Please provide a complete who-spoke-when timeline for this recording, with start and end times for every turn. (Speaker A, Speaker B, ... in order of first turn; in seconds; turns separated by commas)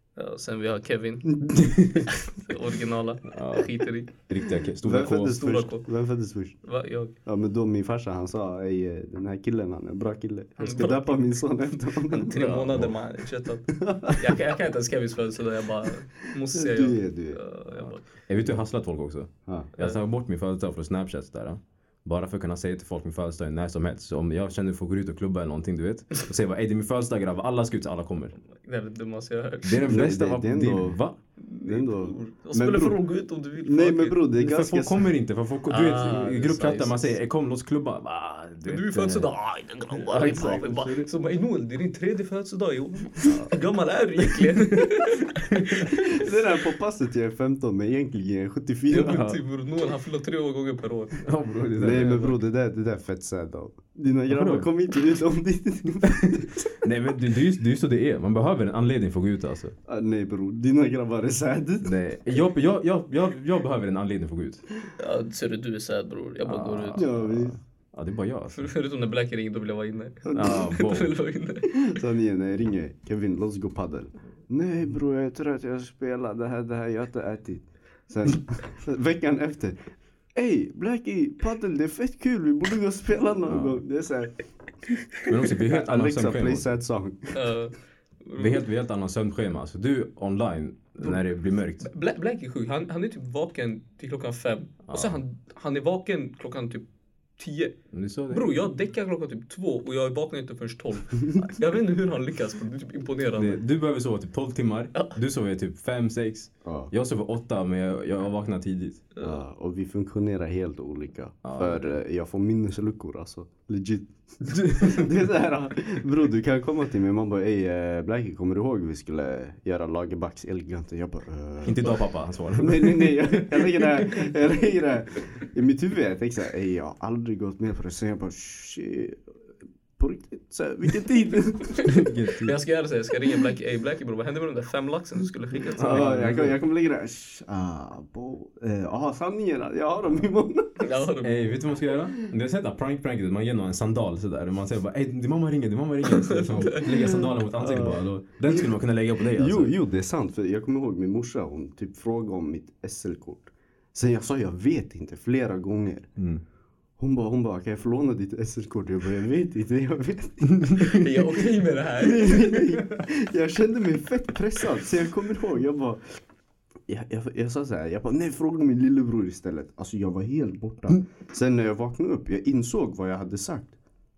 Speaker A: 0.2-4.1, Speaker B: 1.6-2.0, Speaker B: 3.3-5.4, Speaker C: 4.8-6.6, Speaker A: 5.2-5.9, Speaker A: 6.6-7.1, Speaker C: 7.2-12.9, Speaker A: 10.6-11.1, Speaker B: 10.6-11.0, Speaker A: 12.1-18.1, Speaker C: 13.7-14.4, Speaker C: 16.5-17.4, Speaker B: 17.7-28.4, Speaker C: 19.4-19.7, Speaker A: 28.6-30.0, Speaker B: 29.6-31.2, Speaker C: 29.8-31.0, Speaker A: 31.4-34.2, Speaker C: 31.6-33.0, Speaker C: 33.6-35.1, Speaker B: 34.4-39.3, Speaker A: 35.7-37.1, Speaker A: 38.6-46.4, Speaker B: 39.9-41.1, Speaker B: 43.2-43.6, Speaker B: 45.5-45.8, Speaker C: 45.9-49.3, Speaker A: 48.9-51.3, Speaker B: 49.0-49.4, Speaker B: 51.2-52.4, Speaker C: 51.8-56.8, Speaker B: 54.3-54.7, Speaker B: 56.2-59.8, Speaker C: 59.9-62.0, Speaker B: 61.8-64.6, Speaker A: 65.0-67.2, Speaker B: 66.4-68.7, Speaker C: 67.0-67.6, Speaker A: 68.5-71.7, Speaker C: 70.2-70.6, Speaker B: 70.3-71.2, Speaker C: 71.7-84.4, Speaker B: 83.5-83.8, Speaker B: 85.2-86.7, Speaker C: 85.3-87.4, Speaker A: 87.3-88.6, Speaker B: 88.4-91.9, Speaker A: 91.8-96.8, Speaker B: 94.9-95.2, Speaker A: 97.4-97.8, Speaker B: 97.9-98.6, Speaker A: 98.3-103.6, Speaker B: 103.4-109.1, Speaker C: 106.6-106.9, Speaker A: 109.1-109.4, Speaker C: 109.2-129.2, Speaker B: 111.4-112.0, Speaker B: 114.5-115.1, Speaker B: 121.6-124.3, Speaker C: 130.0-132.0, Speaker A: 131.8-136.2, Speaker B: 131.8-132.6, Speaker C: 135.7-141.1, Speaker B: 135.7-136.6, Speaker A: 140.8-141.4, Speaker B: 141.2-149.7, Speaker A: 146.1-147.2, Speaker C: 146.9-148.7, Speaker C: 149.3-156.1, Speaker B: 156.2-156.4, Speaker C: 157.0-161.2, Speaker B: 160.6-160.9, Speaker A: 160.8-162.6, Speaker C: 161.9-166.2, Speaker C: 166.9-173.8